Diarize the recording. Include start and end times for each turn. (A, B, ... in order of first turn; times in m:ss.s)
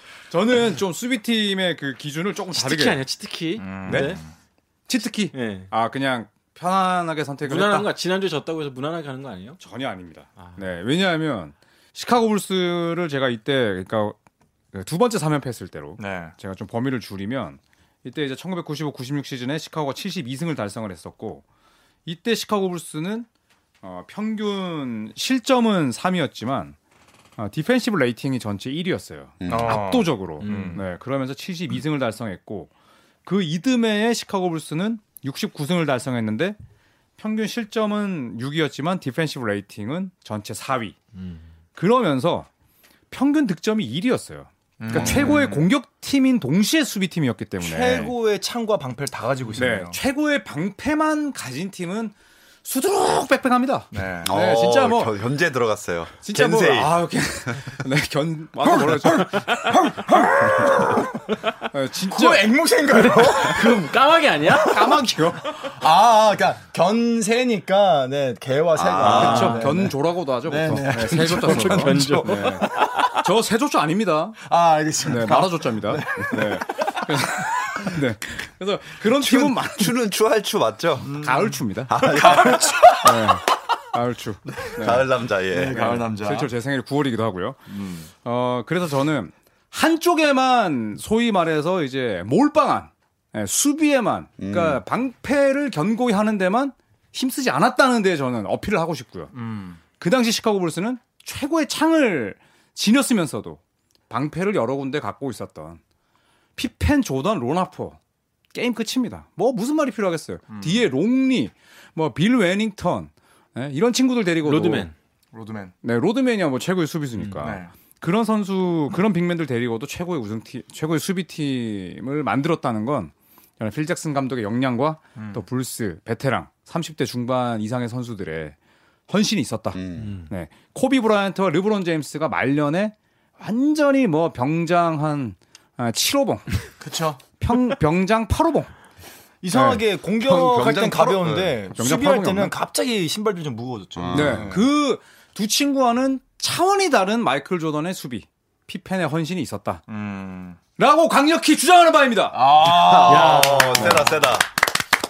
0:00.3-0:03.0 A
0:02.5-0:04.2 B
0:03.6-0:04.3 C
0:03.9-0:04.2 A
0:04.9-0:07.9 A
0:05.3-0:05.7 B
0:07.4-0:09.6 B
0:09.6-0:14.2 A
0:14.7-0:21.4 A
0:16.0-0:16.3 C
0:22.1-0:23.3 A
0:23.8-0:26.8 A
0:27.4-0:32.7 A
0:29.4-0:29.8 D
0:29.5-0:30.8 C
0:30.4-0:30.8 B
0:33.3-0:36.6 A
0:37.2-0:41.0 A
0:41.1-0:41.5 B
0:41.8-0:42.5 A
0:43.1-0:48.1 A
0:44.8-0:45.7 C
0:44.9-0:45.5 D
0:47.6-0:50.0 C
0:49.6-0:55.2 A
0:53.9-0:54.3 C
0:54.2-0:56.9 D
0:56.2-1:00.9 A
0:58.6-1:01.3 C
1:01.6-1:02.5 A
1:02.1-1:03.9 C
1:03.0-1:05.0 B
1:04.5-1:05.7 A
1:05.6-1:12.9 C
1:08.8-1:09.6 D
1:09.0-1:09.7 B
1:09.0-1:14.4 A
1:11.4-1:12.9 B
1:14.4-1:17.0 C
1:15.0-1:20.0 A
1:17.7-1:18.0 C
1:19.2-1:21.2 D
1:21.0-1:23.3 C
1:21.1-1:22.5 A
1:21.9-1:23.1 D
1:23.0-1:25.1 A
1:24.8-1:26.0 D
1:25.5-1:26.5 C
1:25.7-1:39.4 A
1:27.7-1:28.1 C
1:34.4-1:34.8 D
1:39.3-1:39.8 C
1:40.0-1:45.8 A
1:46.6-1:48.0 A
1:48.5-1:54.9 A
1:50.5-1:50.8 C
1:54.4-1:55.0 B
1:55.3-1:55.7 C
1:55.8-2:08.6 A
1:57.4-1:57.7 C
2:05.2-2:05.4 C
2:09.1-2:16.7 A
2:09.7-2:10.2 D
2:10.0-2:10.3 B
2:16.8-2:17.2 C
2:17.4-2:18.7 A
2:19.4-2:24.7 C
2:19.5-2:19.8 A
2:20.2-2:21.6 D
2:21.7-2:22.6 A
2:24.0-2:24.6 D
2:24.1-2:29.8 A
2:29.9-2:30.6 C
2:30.8-2:32.5 A
2:32.3-2:34.2 C
2:32.6-2:34.5 D
2:33.1-2:34.0 B
2:33.8-2:34.1 A